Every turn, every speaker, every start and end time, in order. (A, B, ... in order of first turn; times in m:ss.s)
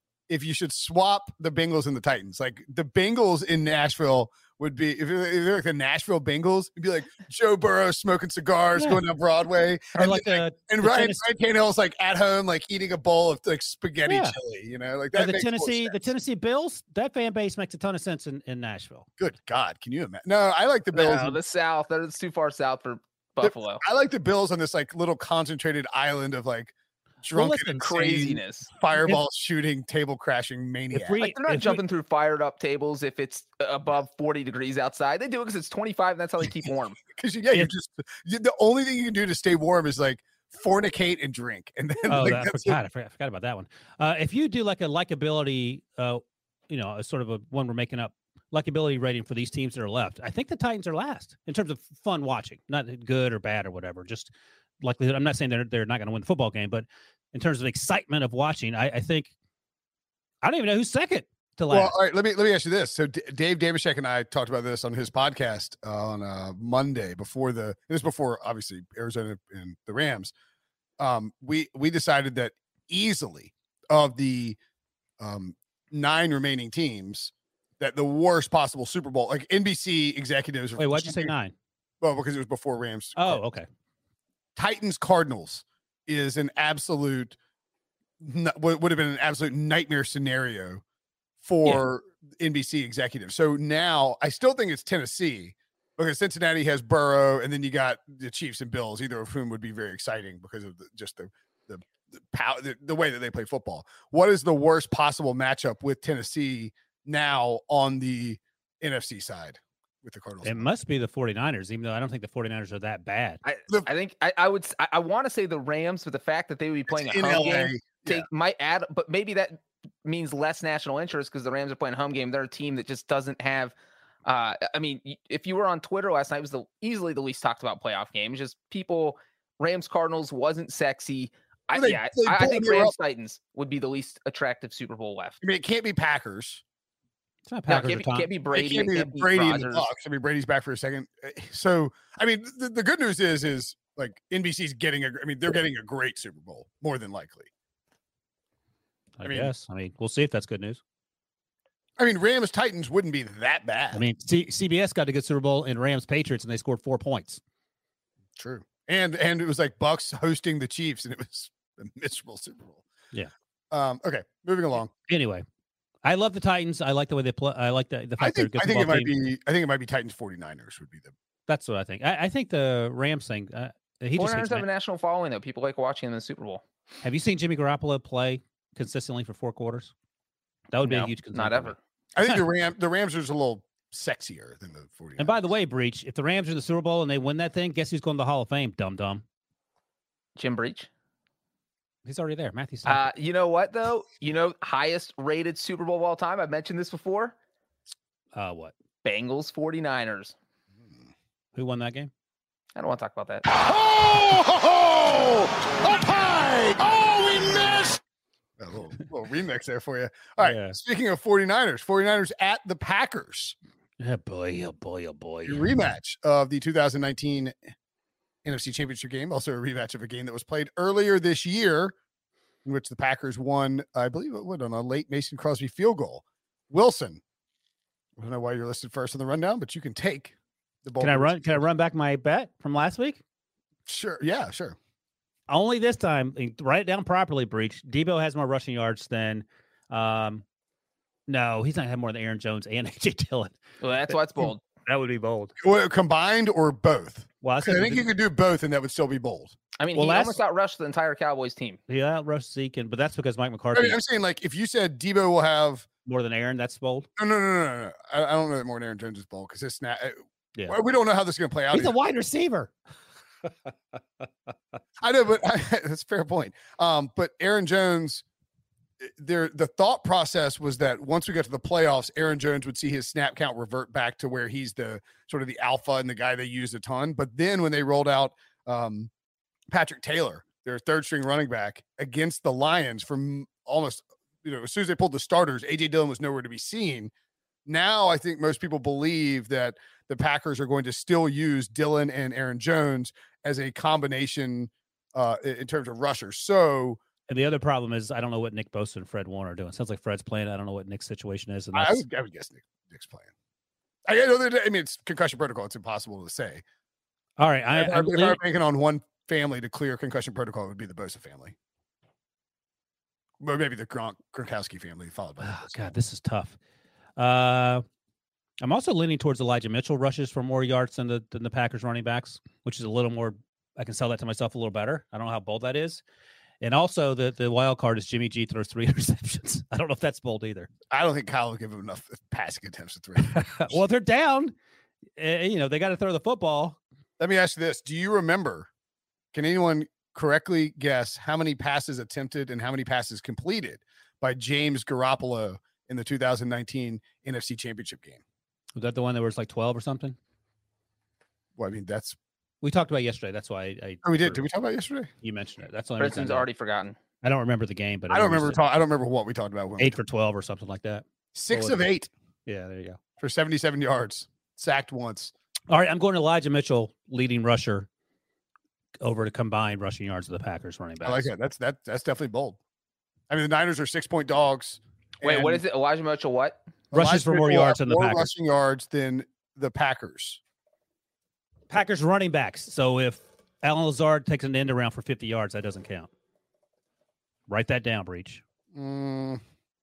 0:00.3-0:16.1 A
0:08.8-0:09.0 B
0:10.0-0:11.2 B
0:14.1-0:14.4 B
0:15.1-0:19.1 B
0:19.2-0:21.4 A
0:20.9-0:23.8 C
0:23.4-0:31.2 A
0:27.3-0:27.9 B
0:27.8-0:28.7 C
0:28.9-0:29.2 B
0:30.9-0:31.8 B
0:31.2-0:37.0 C
0:37.1-0:42.8 A
0:42.1-0:59.3 B
1:00.4-1:02.0 B
1:01.7-1:10.3 A
1:11.0-1:14.6 A
1:15.2-1:21.4 A
1:20.8-1:21.5 B
1:22.0-1:23.4 A
1:23.2-1:23.7 B
1:24.6-1:27.4 A
1:28.2-1:30.8 A
1:31.4-1:50.7 A
1:50.4-1:53.4 B
1:53.4-2:03.7 C
1:56.9-1:58.3 A
2:04.2-2:15.4 C
2:11.7-2:12.9 A
2:15.4-2:16.6 A
2:17.5-2:18.3 B
2:17.7-2:19.9 C
2:18.5-2:27.5 A
2:29.2-2:30.8 B
2:29.2-2:29.5 A
2:32.0-2:34.0 A
2:33.9-2:37.4 B
2:38.4-2:42.8 A
2:43.7-2:44.9 A
2:45.1-2:45.4 B
2:46.0-2:49.2 B
2:48.2-2:51.1 A
2:51.5-2:54.7 B
2:54.2-2:56.6 C
2:57.0-2:59.9 B
3:00.7-3:01.8 B
3:00.8-3:01.8 C
3:02.2-3:05.5 A
3:05.2-3:09.2 B
3:10.4-3:10.9 C
3:12.0-3:13.1 B
3:12.9-3:17.4 C
3:18.3-3:18.7 B
3:19.0-3:20.3 C
3:21.6-3:22.1 B
3:22.8-3:23.5 C
3:25.8-3:26.9 A
3:28.6-3:33.6 A
3:30.4-3:30.8 B
3:34.0-3:35.6 B
3:35.5-3:37.6 A
3:38.4-3:42.0 A
3:42.6-3:47.2 A
3:48.2-3:51.6 A
3:51.0-3:53.2 B
3:53.9-3:54.8 A
3:55.5-4:00.4 B
4:01.3-4:03.6 B
4:03.8-4:04.6 C
4:04.4-4:05.5 B
4:05.6-4:09.5 A
4:07.4-4:08.1 B
4:09.8-4:11.8 C
4:09.9-4:10.4 B
4:11.9-4:14.0 B
4:13.7-4:15.9 A
4:16.1-4:17.1 B
4:17.2-4:22.0 A
4:21.7-4:22.7 B
4:25.0-4:28.2 A
4:29.0-4:39.1 A
4:39.7-4:47.1 A
4:47.7-4:57.0 A
4:57.3-5:02.0 B
5:01.7-5:03.3 A
5:04.1-5:06.6 A
5:07.4-5:08.4 B
5:07.7-5:11.6 A
5:13.4-5:15.9 A
5:15.4-5:16.6 B
5:17.2-5:17.8 B
5:18.6-5:26.0 B
5:26.6-5:30.7 B
5:30.9-5:33.8 A
5:33.3-5:34.5 B
5:35.2-5:36.8 B
5:37.2-5:38.7 A
5:39.3-5:48.2 A
5:48.8-5:50.2 B
5:51.6-5:52.2 A
5:52.6-5:54.5 B
5:54.0-5:55.1 A
5:55.2-5:56.5 B
5:56.0-5:57.0 C
5:57.2-5:58.6 B
5:58.1-6:00.0 A
5:59.8-6:01.8 B
6:01.4-6:02.1 A
6:02.5-6:03.0 B
6:03.2-6:05.3 A
6:05.7-6:07.9 B
6:09.0-6:11.2 B
6:11.0-6:12.6 A
6:13.3-6:15.6 A
6:15.2-6:16.6 C
6:16.9-6:18.3 B
6:16.9-6:20.4 A
6:21.7-6:26.1 B
6:27.5-6:28.4 B
6:28.7-6:29.4 A